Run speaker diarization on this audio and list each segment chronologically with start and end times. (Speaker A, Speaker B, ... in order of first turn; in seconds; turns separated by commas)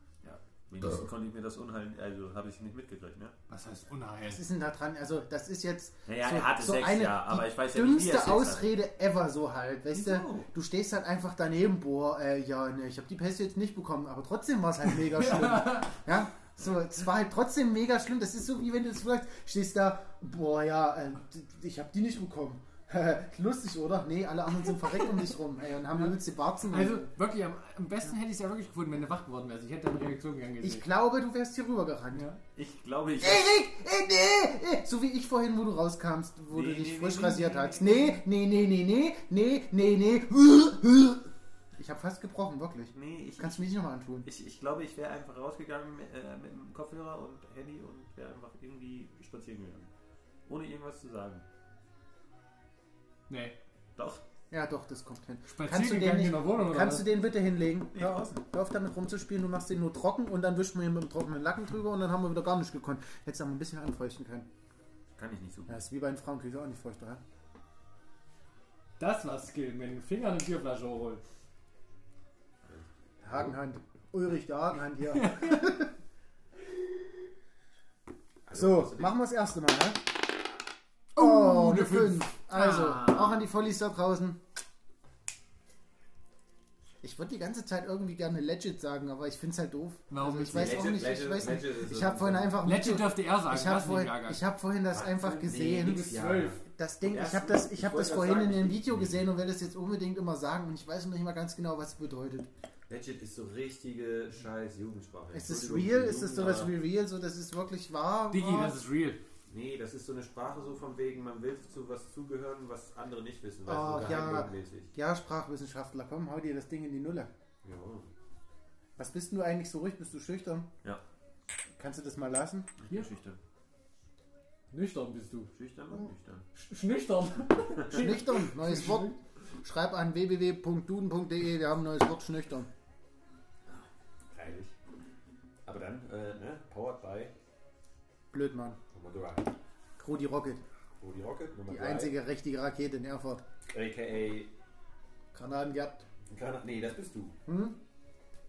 Speaker A: 0.2-3.3, Speaker B: 3.5-4.4, Speaker C: 4.3-27.1, Speaker A: 6.1-8.7, Speaker A: 9.9-10.5, Speaker B: 15.1-15.9, Speaker B: 26.7-30.8, Speaker C: 30.6-32.2, Speaker B: 32.1-32.4, Speaker A: 32.5-33.5, Speaker C: 33.2-44.2, Speaker A: 36.5-38.1, Speaker A: 42.9-49.9, Speaker A: 50.5-51.5, Speaker B: 53.3-53.5, Speaker A: 54.0-54.2, Speaker C: 54.5-64.5, Speaker B: 55.5-57.1, Speaker A: 57.9-58.3, Speaker A: 65.2-65.7, Speaker C: 65.7-67.2, Speaker B: 69.0-71.2, Speaker C: 73.2-75.9, Speaker B: 75.1-75.7, Speaker A: 78.5-79.1, Speaker C: 78.5-80.0, Speaker B: 81.1-83.4, Speaker C: 81.2-84.4, Speaker C: 87.0-102.5, Speaker B: 90.1-90.9, Speaker A: 90.5-92.6, Speaker B: 92.6-94.4, Speaker A: 94.9-96.6, Speaker B: 95.8-96.6, Speaker A: 97.1-99.2, Speaker A: 102.9-106.7, Speaker C: 105.3-108.7, Speaker B: 108.3-109.2, Speaker A: 109.5-114.9, Speaker C: 113.7-117.3, Speaker A: 117.6-118.1, Speaker C: 119.0-120.7, Speaker C: 121.8-122.7, Speaker A: 122.8-123.4, Speaker B: 124.7-125.5, Speaker A: 125.5-126.5, Speaker B: 126.5-129.2, Speaker C: 127.9-132.7, Speaker A: 133.7-134.8, Speaker A: 135.7-137.3, Speaker C: 138.3-138.8, Speaker A: 138.9-139.5, Speaker C: 140.0-140.6, Speaker A: 141.0-142.1, Speaker C: 141.7-143.4, Speaker A: 143.7-144.5, Speaker C: 145.3-146.1, Speaker A: 146.2-147.3, Speaker C: 147.4-147.8